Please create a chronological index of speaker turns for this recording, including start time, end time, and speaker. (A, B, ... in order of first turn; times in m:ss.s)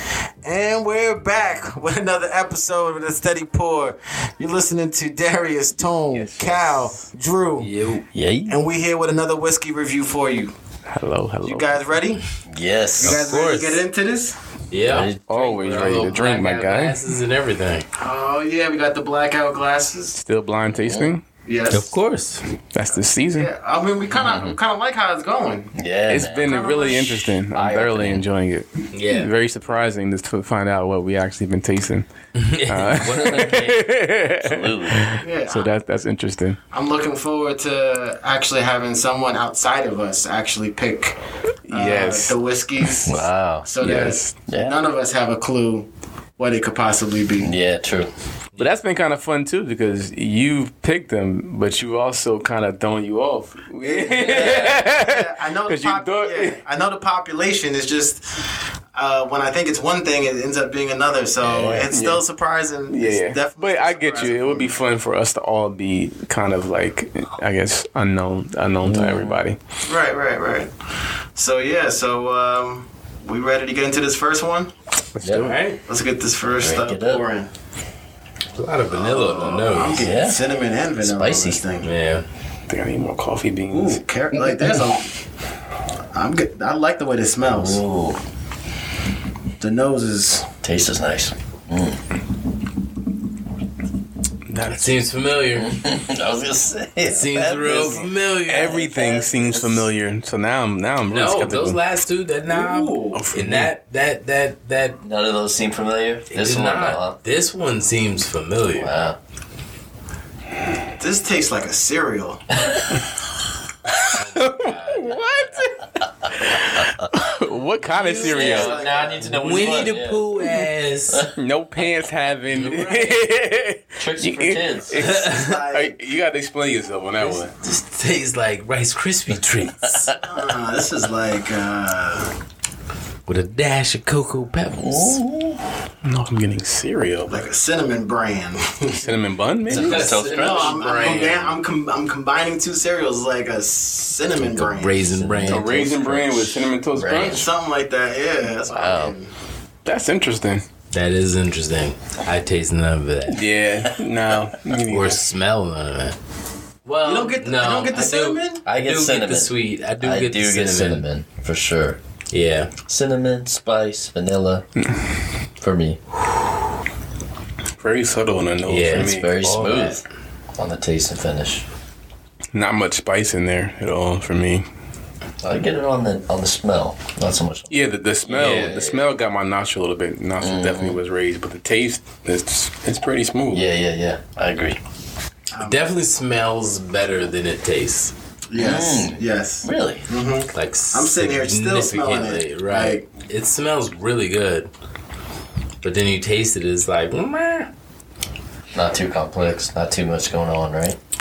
0:00.4-0:07.7 A
0:06.2-0:06.8 B
0:07.6-0:08.0 C
0:08.1-0:08.6 D
0:08.5-0:10.5 A
0:10.9-0:12.0 B
0:11.4-0:12.2 A
0:12.5-0:13.3 D
0:13.0-0:14.4 A
0:13.0-0:13.8 C
0:14.7-0:17.9 C
0:14.9-0:15.2 D
0:15.3-0:17.0 B
0:18.0-0:20.2 A
0:20.2-0:21.2 B
0:20.7-0:21.1 D
0:21.4-0:22.0 A
0:21.7-0:22.4 C
0:22.7-0:23.5 B
0:23.3-0:25.7 A
0:24.1-0:24.6 D
0:25.7-0:28.2 D
0:26.1-0:32.1 B
0:26.5-0:27.3 A
0:28.9-0:29.3 C
0:32.3-0:33.5 C
0:32.7-0:36.6 B
0:33.0-0:33.8 D
0:34.4-0:35.1 D
0:35.2-0:35.7 A
0:36.7-0:41.2 A
0:41.6-0:42.4 B
0:41.7-0:47.5 A
0:43.0-0:43.7 D
0:43.8-0:44.3 B
0:44.5-0:44.8 D
0:47.4-0:48.1 D
0:48.6-0:56.6 B
0:53.8-1:04.7 A
1:01.4-1:01.9 D
1:01.8-1:02.2 B
1:02.9-1:09.6 B
1:08.8-1:09.4 D
1:09.8-1:10.7 A
1:11.3-1:14.7 A
1:15.1-1:15.6 B
1:15.2-1:15.8 C
1:15.8-1:17.5 A
1:16.6-1:17.2 D
1:18.6-1:20.1 C
1:18.9-1:21.9 A
1:20.0-1:21.6 D
1:21.8-1:22.2 C
1:22.7-1:24.0 B
1:23.7-1:25.1 A
1:26.1-1:27.8 A
1:27.5-1:28.2 D
1:29.6-1:30.5 A
1:30.6-1:32.0 D
1:34.5-1:35.0 B
1:34.6-1:35.7 C
1:35.5-1:38.1 D
1:37.0-1:38.9 C
1:38.4-1:41.8 B
1:38.9-1:39.8 A
1:41.1-1:45.0 C
1:42.5-1:43.2 A
1:43.1-1:43.7 B
1:45.0-1:47.2 D
1:46.3-1:48.9 C
1:48.7-1:49.2 D
1:51.0-1:52.4 A
1:54.0-1:58.8 B
1:54.1-1:55.1 C
1:57.9-2:00.2 D
1:58.1-1:59.8 A
1:59.4-2:01.3 C
2:01.3-2:07.5 B
2:02.5-2:03.2 C
2:04.0-2:05.1 D
2:05.0-2:05.4 C
2:05.3-2:06.0 A
2:07.2-2:10.1 C
2:09.8-2:10.2 D
2:10.2-2:12.3 A
2:13.3-2:15.2 C
2:14.8-2:15.6 D
2:16.0-2:17.3 B
2:17.3-2:19.1 A
2:19.0-2:20.1 B
2:19.7-2:21.4 D
2:19.7-2:21.5 C
2:20.2-2:25.4 A
2:24.4-2:26.3 C
2:25.2-2:26.4 D
2:25.5-2:27.5 B
2:26.9-2:27.5 D
2:27.3-2:29.3 A
2:28.6-2:29.2 D
2:29.8-2:30.6 B
2:30.9-2:33.4 C
2:33.3-2:35.3 B
2:34.9-2:36.2 C
2:36.8-2:41.0 C
2:37.0-2:38.6 A
2:38.6-2:42.0 D
2:42.3-2:42.7 C
2:42.9-2:44.6 D
2:45.6-2:46.0 D
2:47.8-2:49.3 B
2:48.7-2:50.0 C
2:48.8-2:50.0 D
2:50.6-2:51.6 D
2:52.5-2:54.6 B
2:55.4-2:57.7 D
2:57.7-3:03.6 B
2:58.2-2:59.0 D
2:58.3-2:58.8 C
3:00.4-3:01.0 D
3:03.5-3:04.8 D
3:05.5-3:05.9 A
3:05.6-3:08.1 C
3:08.5-3:13.0 A
3:08.5-3:10.1 D
3:10.5-3:14.7 C
3:15.8-3:17.7 C
3:18.7-3:21.0 D